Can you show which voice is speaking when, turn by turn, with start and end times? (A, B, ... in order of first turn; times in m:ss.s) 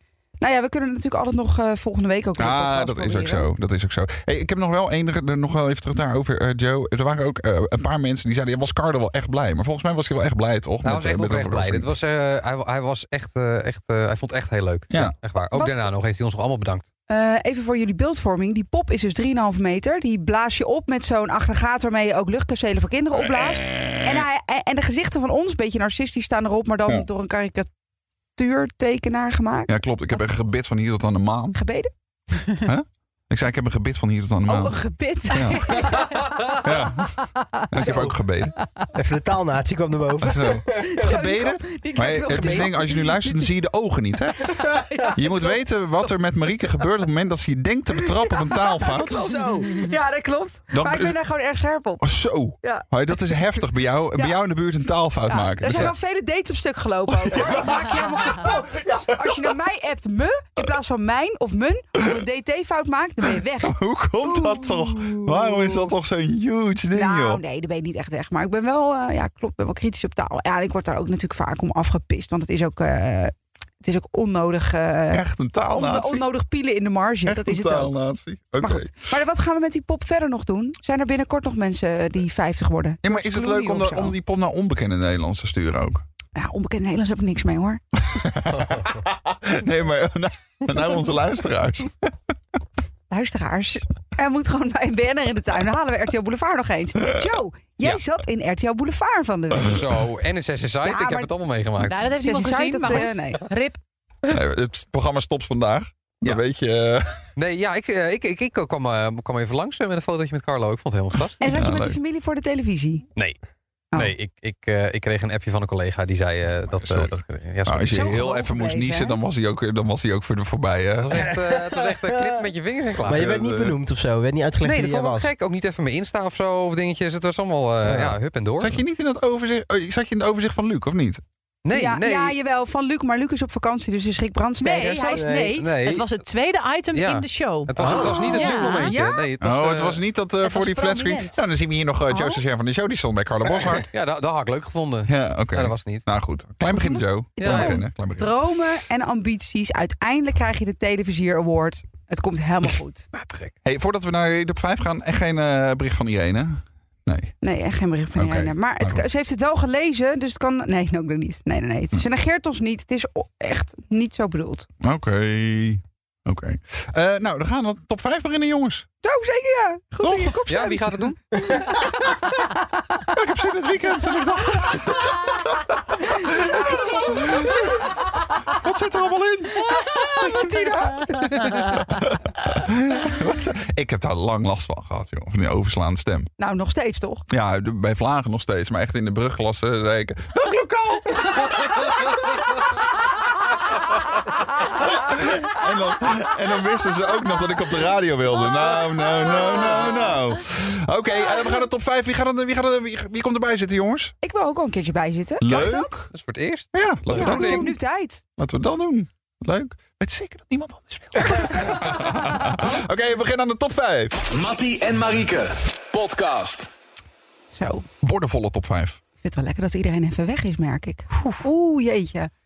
0:00.4-0:03.5 A
0:02.4-0:11.9 B
0:10.8-0:16.8 C
0:15.5-0:15.9 A
0:17.1-0:27.7 A
0:23.2-0:24.2 B
0:28.4-0:29.7 A
0:29.7-0:31.6 B
0:31.5-0:31.9 A
0:32.6-0:34.8 B
0:34.4-0:38.9 A
0:35.3-0:38.5 B
0:38.9-0:41.0 D
0:40.2-0:49.3 B
0:40.7-0:43.5 A
0:44.5-0:45.6 A
0:48.1-0:52.0 A
0:50.7-0:51.2 B
0:52.0-0:55.9 B
0:52.6-0:52.9 A
0:55.3-1:05.9 A
0:57.1-0:58.6 B
1:03.6-1:07.4 B
1:06.9-1:17.9 A
1:15.1-1:16.2 B
1:17.2-1:18.9 B
1:18.6-1:24.1 A
1:23.0-1:26.0 B
1:26.3-1:27.8 A
1:28.1-1:32.1 B
1:33.1-1:39.8 A
1:39.6-1:42.1 C
1:40.8-1:41.3 A
1:41.8-1:43.8 E
1:42.0-1:43.4 A
1:44.3-1:47.2 B
1:47.4-1:51.4 C
1:51.4-1:53.1 A
1:51.5-1:52.0 B
1:53.9-1:58.2 C
1:56.8-2:01.3 B
1:57.9-1:59.2 A
2:01.0-2:03.3 C
2:01.7-2:02.5 D
2:03.0-2:05.3 D
2:03.1-2:03.8 B
2:04.6-2:08.8 C
2:07.8-2:08.2 D
2:08.6-2:11.2 B
2:11.6-2:12.4 C
2:11.7-2:15.5 A
2:14.6-2:19.0 E
2:15.1-2:15.5 D
2:15.6-2:16.1 C
2:16.9-2:20.0 C
2:17.8-2:18.2 B
2:17.9-2:19.3 A
2:19.4-2:23.9 B
2:20.4-2:21.4 E
2:22.1-2:22.4 A
2:23.9-2:26.0 C
2:25.1-2:28.3 B
2:26.6-2:33.1 A
2:27.4-2:27.8 C
2:33.6-2:37.3 B
2:37.4-2:44.7 A
2:38.2-2:39.0 B
2:44.8-2:48.9 B
2:49.0-2:52.5 A
2:50.0-2:50.4 B
2:50.5-2:51.2 C
2:53.1-2:57.8 B
2:56.1-2:58.0 A
2:58.5-2:59.7 B
2:59.6-3:01.9 A
3:01.7-3:06.3 B
3:06.4-3:07.2 A
3:07.3-3:12.0 B
3:14.8-3:24.1 B
3:21.3-3:21.6 A
3:24.2-3:25.9 A
3:25.4-3:26.1 B
3:26.1-3:27.7 C
3:26.7-3:27.7 B
3:27.1-3:28.2 A
3:28.4-3:34.2 B
3:34.3-3:36.7 F
3:37.5-3:37.8 A
3:38.0-3:39.0 B
3:39.2-3:42.3 A